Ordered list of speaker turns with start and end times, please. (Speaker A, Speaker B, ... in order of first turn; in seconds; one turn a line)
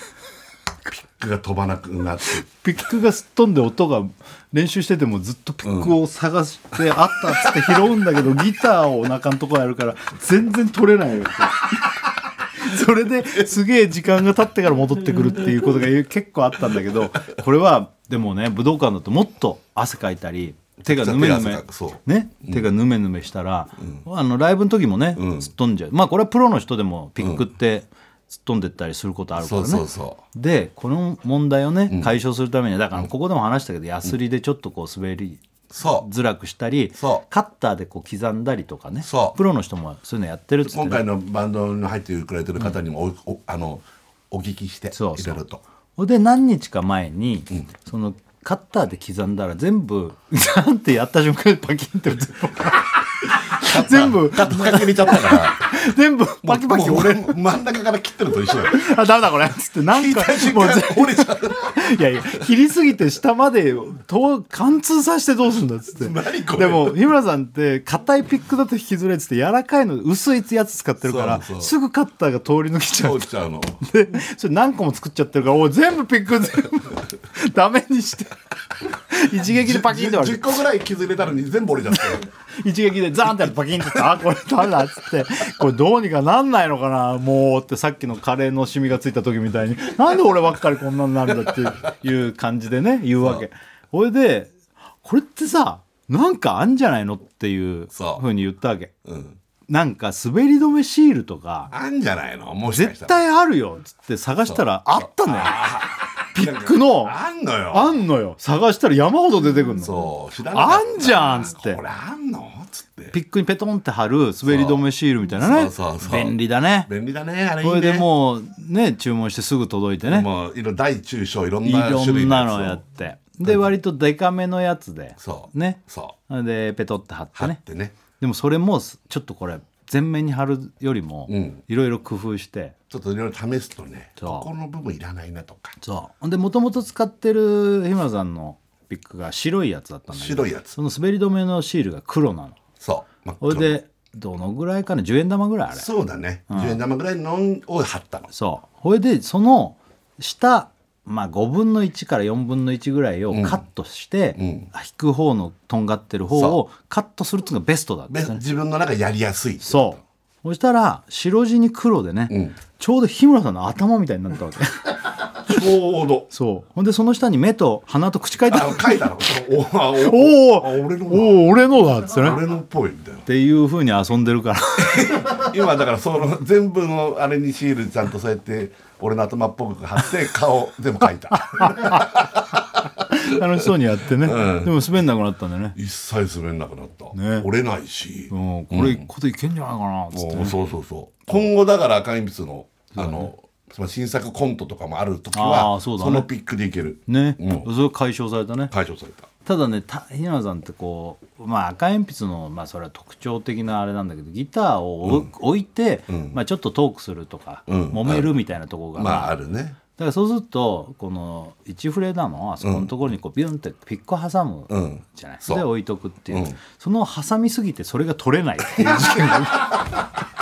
Speaker A: 0.9-2.4
Speaker B: 2.4-12.0
Speaker A: 5.6-6.0
Speaker B: 12.5-41.0
Speaker A: 20.8-22.6
Speaker A: 25.1-25.5
Speaker A: 29.4-30.2
Speaker A: 31.9-32.1
Speaker A: 35.7-36.1
Speaker A: 37.0-37.2
Speaker A: 39.0-39.4
Speaker A: 40.6-45.6
Speaker B: 44.9-45.4
Speaker B: 46.0-57.4
Speaker A: 53.5-55.6
Speaker A: 56.4-58.8
Speaker B: 58.6-73.3
Speaker A: 59.9-61.8
Speaker A: 66.0-67.0
Speaker A: 71.0-71.7
Speaker A: 73.0-73.8
Speaker B: 73.8-80.5
Speaker A: 79.5-82.3
Speaker B: 82.5-98.9
Speaker A: 93.2-93.4
Speaker A: 97.9-98.2
Speaker A: 99.0-99.4
Speaker B: 99.7-101.7
Speaker A: 101.7-103.2
Speaker B: 102.7-105.7
Speaker A: 104.5-108.0
Speaker B: 106.3-107.2
Speaker B: 107.7-111.8
Speaker A: 109.8-113.1
Speaker B: 113.1-116.9
Speaker A: 114.4-114.8
Speaker A: 115.4-118.1
Speaker B: 117.6-120.3
Speaker A: 120.0-122.8
Speaker B: 121.6-127.6
Speaker A: 125.2-126.2
Speaker A: 127.3-128.0
Speaker B: 128.1-132.8
Speaker A: 131.3-131.6
Speaker A: 132.9-135.8
Speaker B: 134.2-134.5
Speaker B: 135.8-142.6
Speaker A: 140.1-140.8
Speaker A: 142.8-143.8
Speaker B: 143.4-145.9
Speaker A: 145.7-148.3
Speaker B: 146.5-146.8
Speaker B: 148.3-158.4
Speaker A: 153.3-153.6
Speaker A: 154.4-154.7
Speaker A: 156.3-156.6
Speaker A: 158.1-160.0
Speaker B: 159.6-164.9
Speaker A: 162.3-162.6
Speaker A: 165.5-166.3
Speaker B: 166.3-169.0
Speaker A: 168.5-171.4
Speaker B: 169.9-172.4
Speaker A: 172.1-173.2
Speaker B: 173.2-175.4
Speaker A: 174.8-183.3
Speaker B: 181.4-182.4
Speaker B: 183.0-185.8
Speaker A: 184.2-184.8
Speaker A: 185.7-189.1
Speaker B: 187.1-187.5
Speaker B: 188.3-190.6
Speaker A: 190.1-197.7
Speaker B: 192.9-193.3
Speaker B: 195.3-196.3
Speaker B: 197.1-198.7
Speaker A: 198.7-199.3
Speaker B: 199.4-209.3
Speaker A: 205.0-205.3
Speaker A: 206.1-206.4
Speaker A: 207.7-208.3
Speaker A: 208.9-209.8
Speaker B: 209.9-220.0
Speaker A: 212.6-212.9
Speaker A: 214.7-215.6
Speaker A: 216.3-216.6
Speaker A: 218.8-219.9